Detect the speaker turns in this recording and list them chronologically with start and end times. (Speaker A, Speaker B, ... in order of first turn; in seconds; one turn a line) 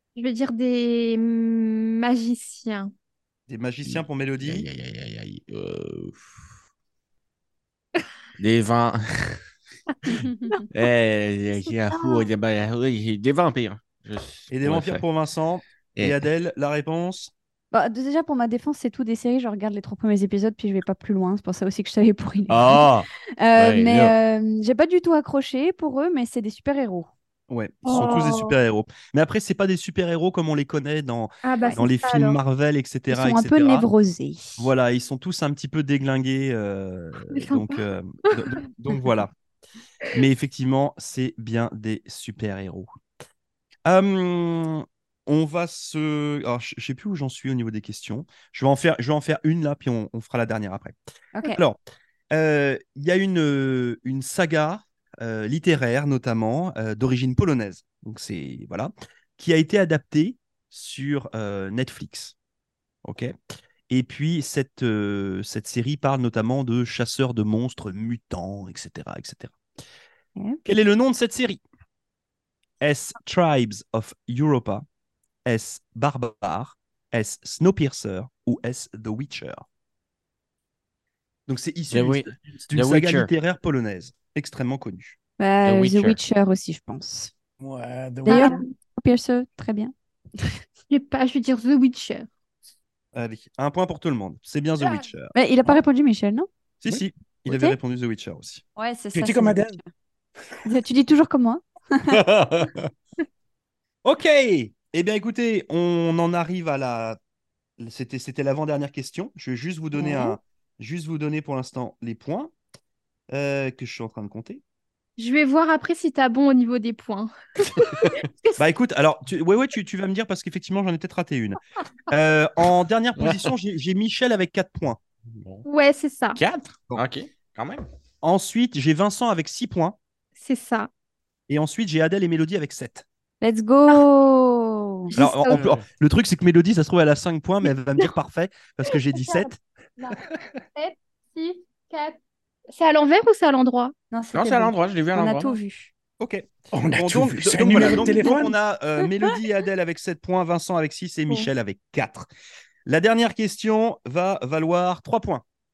Speaker A: 0.1-2.9
Speaker B: 3.5-4.7
Speaker C: 3.9-6.4
Speaker C: 8.4-9.4
Speaker A: 10.0-10.7
Speaker C: 10.7-15.0
Speaker A: 11.7-12.3
Speaker B: 14.5-17.3
Speaker D: 17.7-27.1
Speaker C: 22.5-24.1
Speaker B: 27.5-33.9
Speaker A: 27.9-28.6
Speaker A: 31.4-32.4
Speaker D: 33.1-34.7
Speaker B: 34.6-39.3
Speaker A: 37.3-38.6
Speaker B: 40.1-42.9
Speaker B: 43.9-51.8
Speaker D: 51.3-51.6
Speaker B: 52.3-62.4
Speaker B: 63.0-63.4
Speaker B: 63.9-69.6
Speaker B: 70.7-71.6
Speaker B: 72.8-74.8
Speaker B: 75.5-79.7
Speaker B: 81.5-85.2
Speaker C: 81.9-83.3
Speaker D: 85.4-87.3
Speaker C: 85.7-86.2
Speaker E: 87.6-88.5
Speaker A: 88.3-88.7
Speaker D: 88.3-90.5
Speaker A: 90.9-92.3
Speaker B: 93.2-95.3
Speaker A: 94.8-95.1
Speaker D: 95.3-96.5
Speaker B: 96.8-98.6
Speaker D: 97.5-97.8
Speaker D: 98.8-99.9
Speaker E: 99.1-99.8
Speaker D: 100.6-102.2
Speaker C: 102.1-102.9
Speaker B: 104.0-107.2
Speaker B: 107.8-112.5
Speaker D: 110.0-110.4
Speaker B: 113.3-114.6
Speaker A: 115.2-118.6
Speaker B: 118.6-121.6
Speaker B: 122.1-125.0
Speaker C: 123.2-123.5
Speaker C: 125.3-125.7
Speaker A: 125.7-126.4
Speaker C: 126.4-127.9
Speaker B: 128.2-130.0
Speaker A: 130.4-130.9
Speaker B: 131.5-133.1
Speaker D: 133.4-135.1
Speaker A: 135.1-135.7
Speaker B: 135.2-139.6
Speaker C: 135.5-135.8
Speaker A: 138.9-142.2
Speaker A: 142.7-143.9
Speaker D: 144.1-145.9
Speaker C: 144.3-145.6
Speaker B: 146.2-152.3
Speaker E: 146.7-148.6
Speaker B: 152.9-155.4